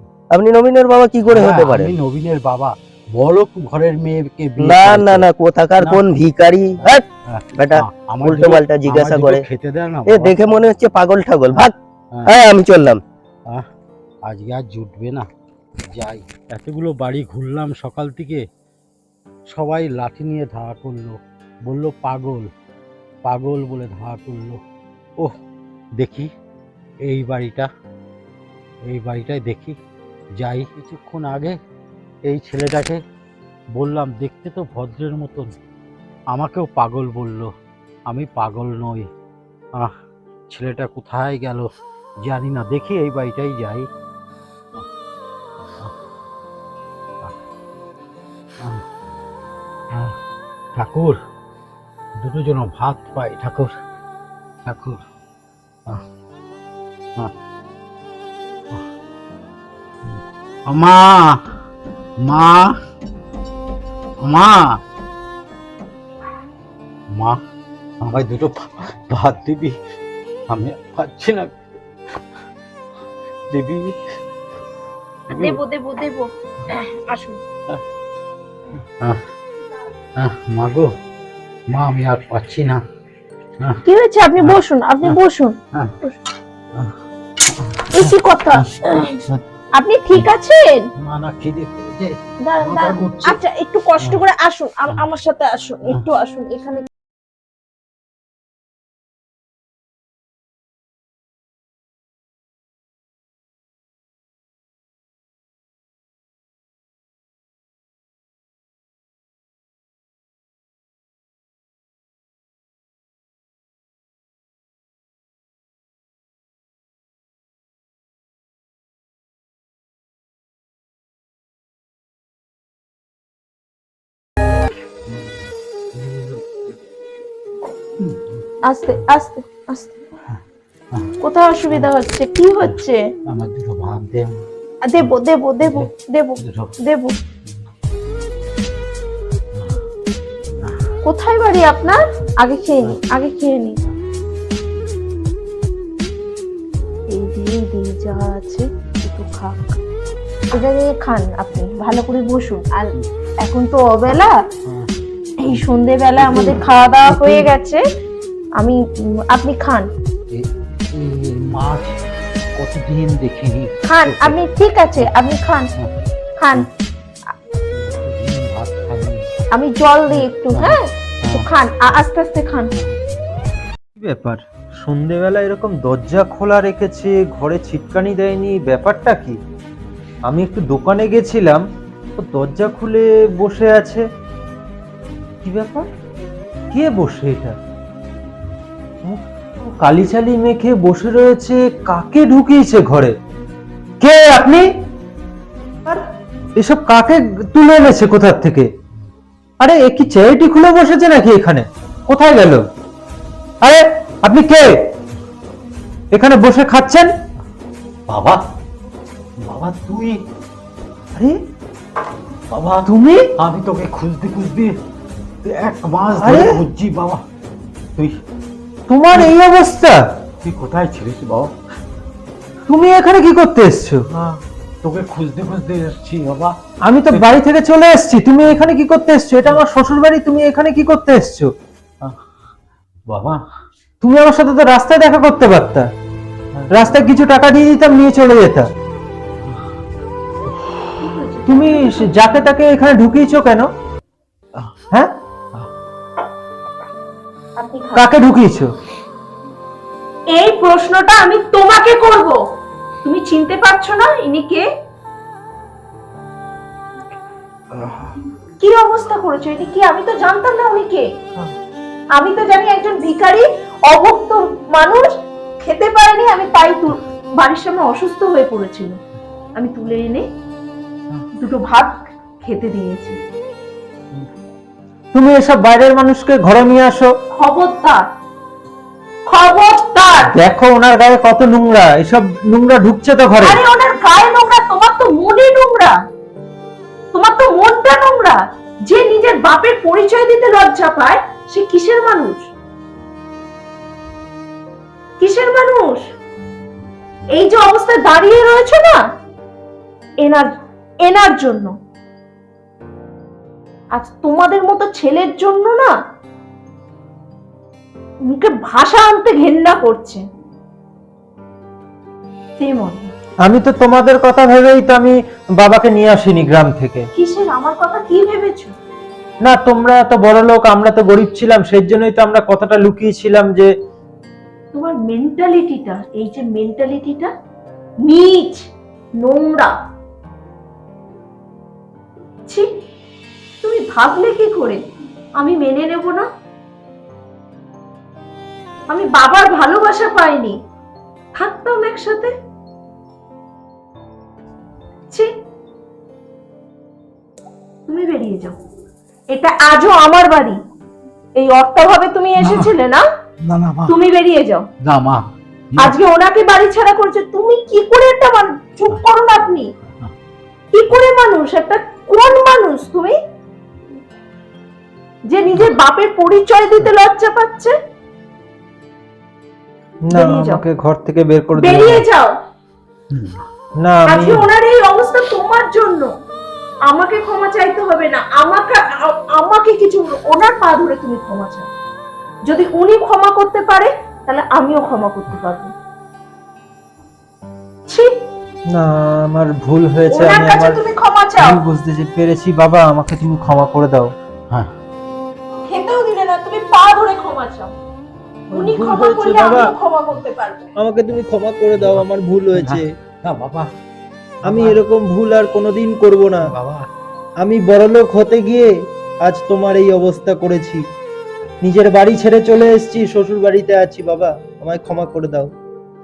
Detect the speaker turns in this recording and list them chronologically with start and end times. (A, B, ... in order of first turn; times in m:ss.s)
0:00.3-0:02.0 A
0:01.2-0:05.3 B
0:04.6-0:07.0 A
0:07.3-0:10.4 B
0:07.6-0:09.4 A
0:10.1-0:11.7 A
0:12.2-0:13.0 A
0:14.2-0:15.3 B
0:15.9-0:18.4 B
0:19.5-0:22.5 B
0:23.2-0:24.6 B
0:26.0-0:26.3 B
0:27.0-0:27.7 B
0:28.9-0:29.8 B
0:30.4-0:31.6 B
0:32.3-0:33.0 B
0:33.7-0:35.5 B
0:36.3-0:37.5 B
0:38.1-0:39.1 B
0:40.5-0:41.7 B
0:42.2-0:43.9 B
0:50.8-0:51.2 B
0:52.2-0:53.8 B
0:54.6-0:55.0 B
1:00.0-1:01.4 B
1:02.2-1:02.8 B
1:04.2-1:04.8 B
1:07.1-1:07.4 B
1:08.0-1:09.8 B
1:10.5-1:11.5 B
1:13.5-1:14.0 B
1:15.3-1:15.6 B
1:15.3-1:17.4 C
1:20.2-1:20.9 B
1:21.7-1:22.8 B
1:23.8-1:26.2 C
1:24.4-1:25.2 B
1:27.5-1:29.4 B
1:27.9-1:29.2 C
1:29.8-1:30.9 C
1:31.0-1:33.4 B
1:32.4-1:36.8 C
2:05.1-2:06.6 B
2:08.0-2:08.4 B
2:08.7-2:09.9 C
2:11.2-2:13.0 C
2:12.6-2:14.4 B
2:14.8-2:17.1 C
2:15.0-2:16.7 B
2:21.0-2:23.8 C
2:27.1-2:29.6 C
2:30.5-2:32.9 C
2:33.4-2:34.3 C
2:34.6-2:34.9 B
2:35.4-2:37.8 C
2:36.2-2:37.5 B
2:39.3-2:39.9 C
2:40.3-2:42.0 B
2:42.6-2:44.4 B
2:43.8-2:45.7 C
2:46.4-2:46.6 C
2:47.7-2:49.3 B
2:49.5-2:52.7 C
2:50.1-2:51.4 B
2:54.0-2:59.4 D
3:00.3-3:01.6 D
3:02.2-3:04.0 D
3:05.4-3:05.9 D
3:06.7-3:07.6 D
3:09.0-3:13.1 D
3:14.0-3:14.6 D
3:16.6-3:18.7 D
3:19.6-3:22.6 D
3:23.6-3:24.8 D
3:26.1-3:27.1 D
3:28.1-3:28.4 B
3:29.4-3:30.2 B
3:32.5-3:34.7 B
3:32.8-3:33.2 D
3:35.4-3:37.2 B
3:36.1-3:36.6 D
3:38.9-3:40.0 D
3:40.4-3:41.5 B
3:42.7-3:44.0 D
3:44.1-3:46.5 B
3:46.8-3:51.5 D
3:48.4-3:48.7 B
3:53.1-3:53.4 B
3:54.0-3:55.9 D
3:56.5-3:57.0 B
3:56.7-3:58.7 D
4:00.5-4:01.0 B
4:01.0-4:02.2 C
4:01.5-4:03.7 D
4:07.6-4:08.1 C
4:07.9-4:08.7 D
4:10.3-4:12.4 C
4:13.0-4:14.6 C
4:17.8-4:18.1 B
4:18.6-4:21.1 C
4:22.1-4:29.0 C
4:29.6-4:30.2 C
4:31.4-4:33.2 C
4:35.1-4:37.1 D
4:37.4-4:38.0 C
4:39.2-4:40.3 C
4:40.2-4:43.6 D
4:43.4-4:45.9 C
4:47.1-4:52.5 C
4:55.2-4:56.0 C
4:57.3-4:59.0 C
5:00.2-5:00.5 C
5:01.0-5:01.7 C
5:03.9-5:05.9 C
5:08.3-5:10.2 C
5:12.6-5:13.1 C
5:13.4-5:17.1 D
5:17.2-5:18.7 C
5:19.4-5:23.7 D
5:24.7-5:27.3 C
5:28.0-5:28.6 C
5:29.2-5:29.7 C
5:33.6-5:34.8 C
5:35.4-5:36.3 C
5:38.9-5:40.6 C
5:41.3-5:42.3 C
5:47.9-5:48.6 C
5:49.3-5:50.6 C
5:51.4-5:53.0 C
5:52.4-5:52.7 B
5:53.4-5:54.0 B
5:53.9-5:54.6 C
5:54.8-5:56.0 B
5:55.8-5:59.7 C
6:00.7-6:03.2 C
6:05.3-6:07.7 C
6:10.1-6:12.0 D
6:10.1-6:10.6 C
6:11.6-6:12.4 C
6:13.1-6:13.4 B
6:13.8-6:14.5 D
6:14.0-6:16.1 C
6:16.9-6:21.7 C
6:22.4-6:25.7 C
6:28.7-6:30.8 D
6:30.1-6:31.6 C
6:31.4-6:34.1 D
6:35.6-6:37.7 C
6:38.5-6:39.7 D
6:38.5-6:40.7 C
6:40.8-6:42.8 D
6:41.7-6:43.7 B
6:44.4-6:44.8 B
6:44.4-6:46.4 D
6:46.4-6:46.8 B
6:47.4-6:48.7 D
6:49.2-6:50.8 D
6:51.6-6:55.5 D